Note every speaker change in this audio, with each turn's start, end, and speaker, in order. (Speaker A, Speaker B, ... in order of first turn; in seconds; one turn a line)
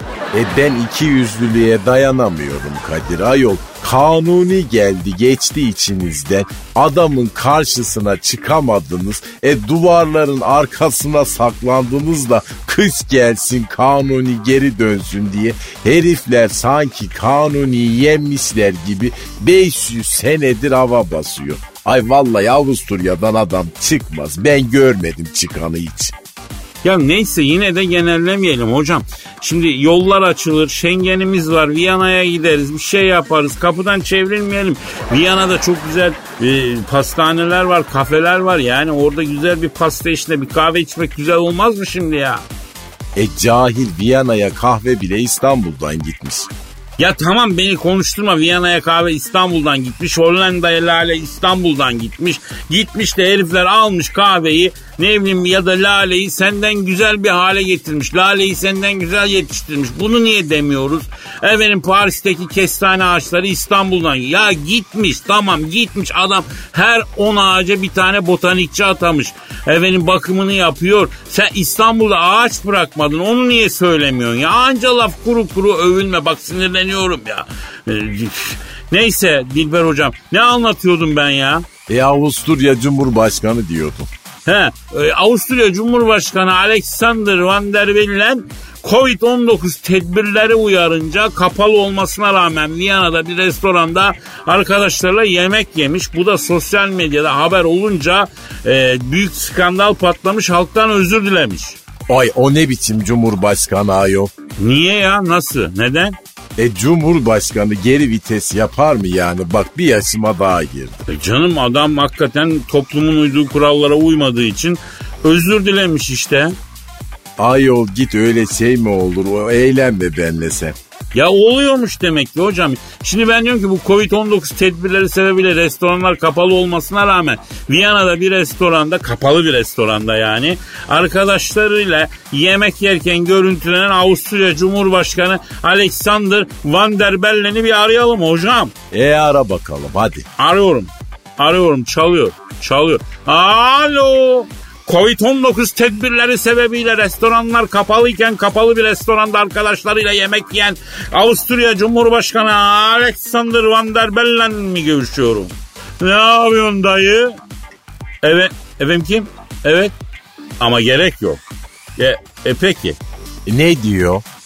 Speaker A: 0.3-26.1
Speaker B: 26.8-42.4
Speaker A: 43.1-46.5
Speaker B: 47.0-81.7
Speaker A: 81.9-84.1
Speaker B: 84.5-101.8
Speaker A: 102.1-104.3
Speaker B: 104.6-106.2
Speaker A: 106.6-111.0
Speaker B: 111.1-116.5
Speaker A: 117.4-120.8
Speaker B: 121.1-138.7
Speaker A: 138.9-140.3
Speaker B: 140.4-157.4
Speaker B: 158.2-159.9
Speaker B: 160.6-161.4
Speaker B: 162.0-163.0
Speaker A: 163.5-164.2